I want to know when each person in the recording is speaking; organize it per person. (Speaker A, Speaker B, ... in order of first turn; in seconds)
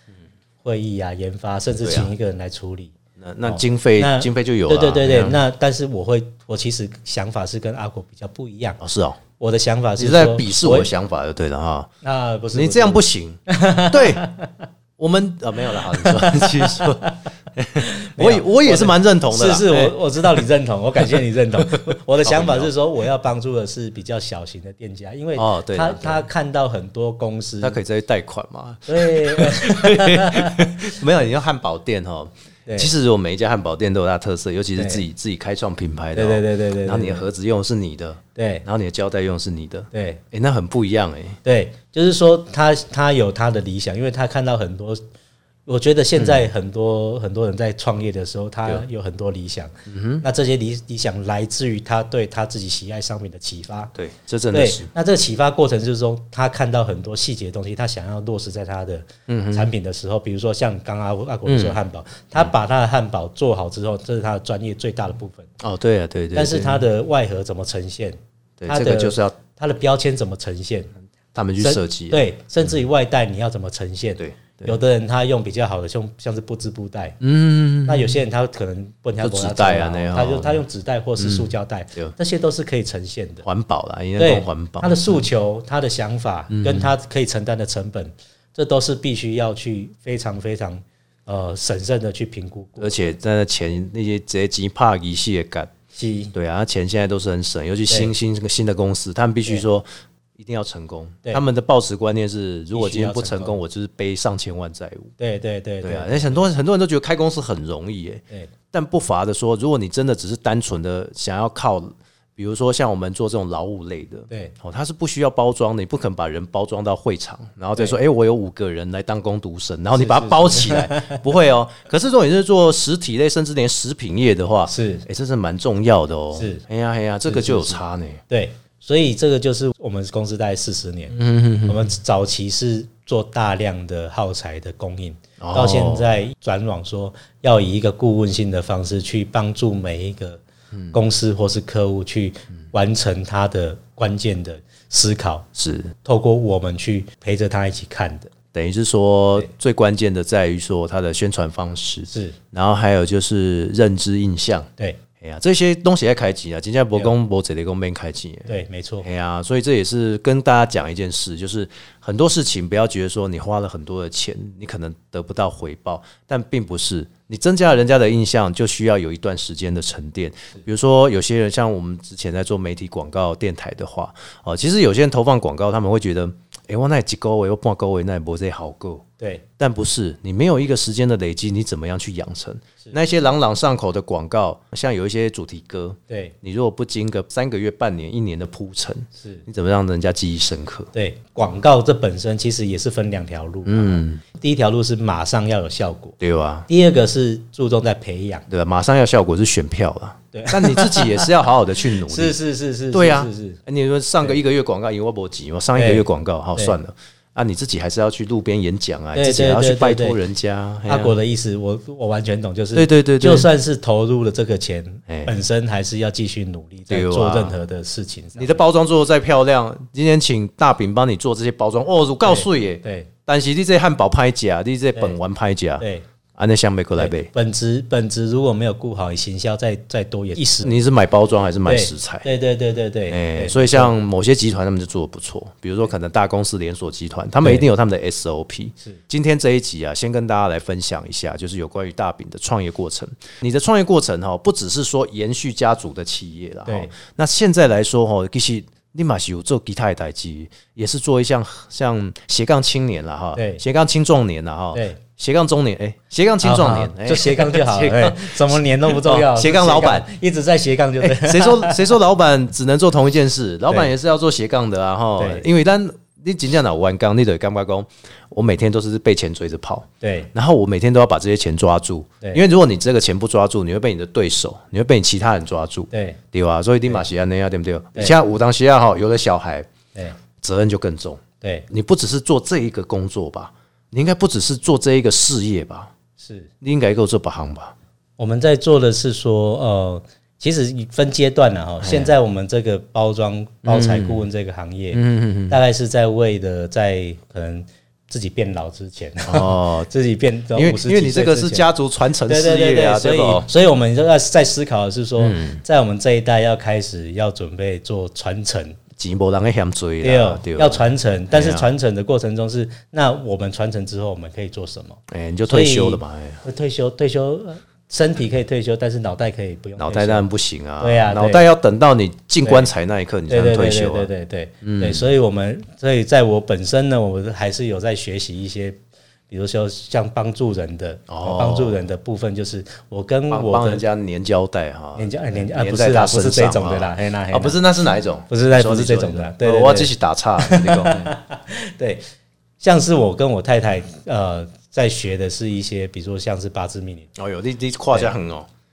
Speaker A: 0.6-2.9, 3.5-8.8, 9.4-10.9, 12.0-14.5, 15.7-17.1, 17.8-27.8, 28.9-30.9, 34.8-35.0, 36.1-37.2, 38.4-38.6, 39.9-40.2, 41.4-45.0, 45.6-53.9, 54.5-65.5, 66.3-70.9, 71.6-77.2, 77.8-83.4, 84.2-93.1, 95.9-96.3, 102.7-103.6, 105.2-106.4, 114.3-114.5, 119.9-121.2, 124.7-125.0, 126.3-126.6, 127.2-131.1, 131.7-140.4, 140.9-145.5, 146.0-148.3, 152.1-152.4, 158.5-159.1, 179.2-179.4, 186.1-186.3, 189.2-189.4, 190.9-196.2, 196.7-198.4, 200.3-201.3, 202.0-203.6, 205.8-206.0, 209.1-210.2, 210.9-218.6, 222.2-223.1, 225.8-226.0, 227.0-230.8, 231.6-233.9, 246.7-246.9, 253.3-253.6, 254.7-255.0, 256.4-261.9, 265.2-265.5, 270.0-270.3, 275.9-276.2, 281.4-281.7, 286.2-286.5, 288.2-301.7, 302.2-308.8, 310.0-320.2, 320.8-321.5, 322.4-322.7, 323.3-333.8, 334.9-337.6, 338.3-342.0, 342.6-347.1
Speaker B: 1.8-2.1, 3.2-5.4, 8.8-9.2, 10.0-11.9, 12.5-14.3, 15.0-19.9, 21.6-22.7, 25.4-26.2, 27.6-41.4, 49.9-50.2, 53.9-54.9, 59.3-59.7, 61.5-61.8, 65.6-66.8, 68.6-69.3, 71.3-72.2, 74.2-74.8, 77.2-78.1, 79.2-80.6, 81.2-82.1, 83.4-85.2, 86.5-86.9, 92.8-95.7, 96.3-105.1, 105.8-128.2, 131.1-131.9, 135.4-136.1, 145.6-145.9, 148.5-179.1, 179.6-190.9, 193.7-194.2, 196.2-196.7, 198.5-202.3, 202.9-211.1, 212.7-213.5, 216.9-217.5, 218.3-227.3, 230.6-232.3, 233.1-260.1, 261.0-279.7, 280.4-285.9, 286.6-287.7, 291.8-292.1, 293.6-294.2, 294.9-295.6, 299.2-299.9, 300.5-303.5, 305.2-305.6, 309.0-311.7, 315.1-316.4, 319.8-324.1, 324.6-325.0, 331.1-331.9, 333.3-341.1, 347.2-348.5